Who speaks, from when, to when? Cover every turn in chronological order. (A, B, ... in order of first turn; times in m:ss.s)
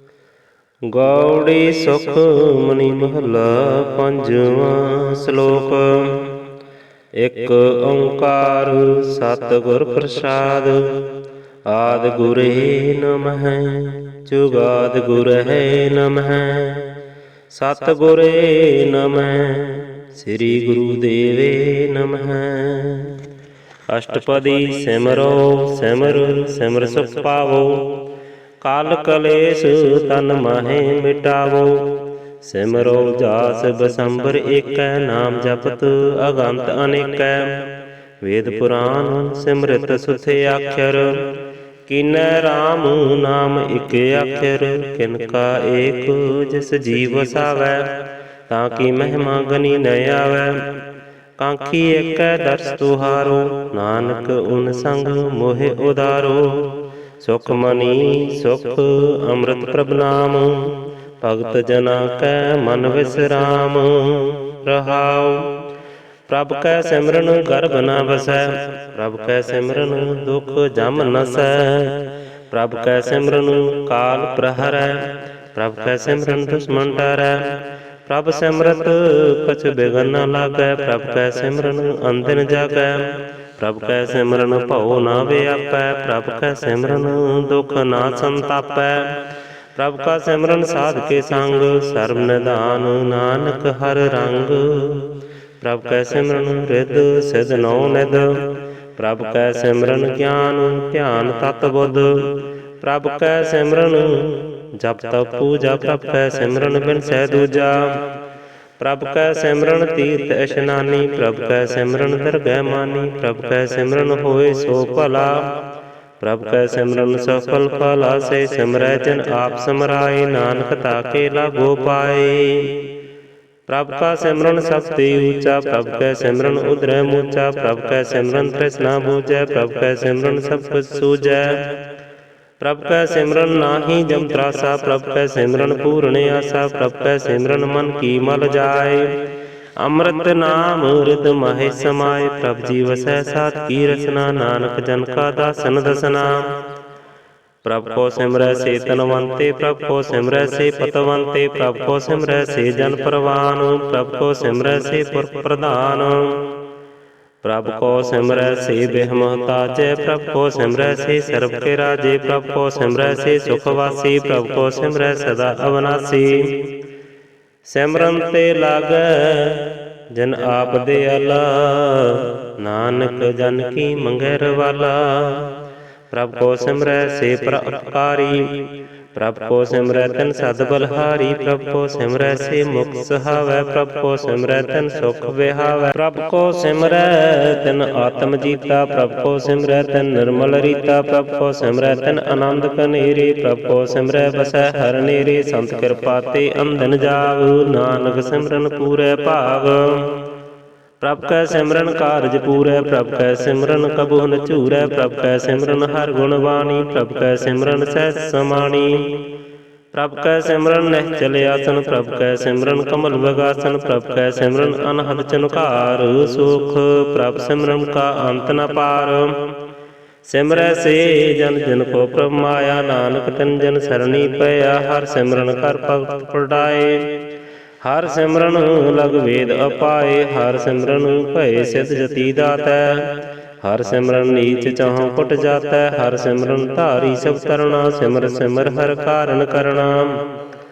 0:00.9-0:06.4 A
0:07.2-0:11.1 A
0:11.7-0:17.0 A
0:17.5-0:23.3 A
0:23.9-0:28.0 A
0:28.6-0:37.7 A
0:38.2-0:50.7 A
0:51.4-1:05.6 A
1:06.3-1:29.2 A
1:29.8-1:48.1 A
1:48.8-1:55.6 A
1:56.2-2:02.9 A
2:03.7-2:11.8 A
2:12.6-2:19.2 A
2:19.8-2:26.5 A
2:27.6-2:36.5 A
2:37.4-2:46.7 A
2:47.7-2:55.5 A
2:56.1-3:20.2 A
3:21.0-3:29.3 A
3:29.9-3:39.5 A
3:40.2-3:47.2 A
3:47.8-4:00.2 A